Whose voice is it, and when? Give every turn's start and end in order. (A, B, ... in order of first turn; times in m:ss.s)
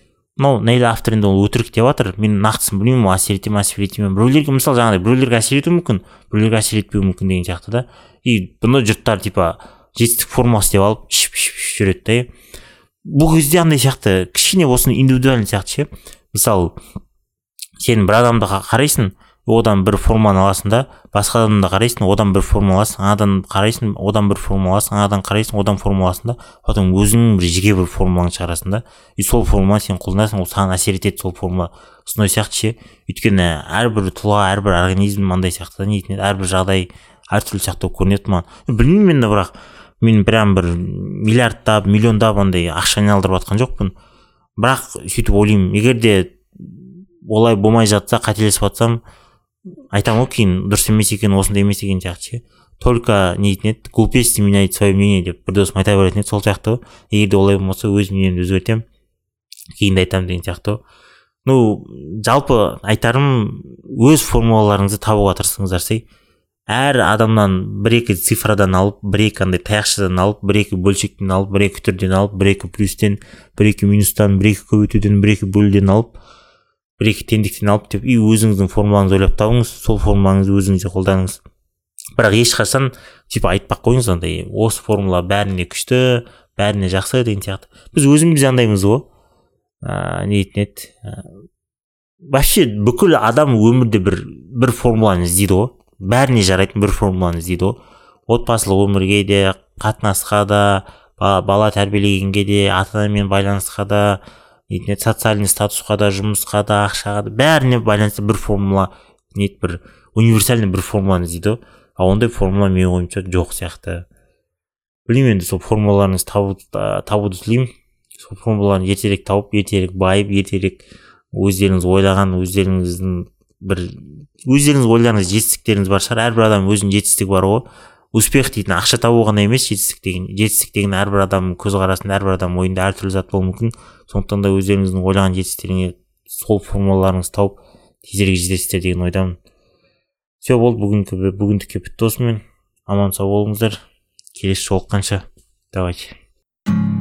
0:00.4-0:12.3 A
0:13.0-0:16.8 A
0:17.8-0:43.9 A
0:44.6-0:49.0 A
0:49.9-0:58.8 A
0:59.8-1:00.8 A
1:01.4-1:06.0 A
1:06.7-1:16.2 A
1:17.0-1:21.4 A
1:22.2-1:29.1 A
1:29.8-1:31.2 A
1:32.3-1:37.8 A
1:38.3-1:54.1 A
1:55.1-2:19.4 A
2:20.4-2:23.8 A
2:24.3-2:26.2 A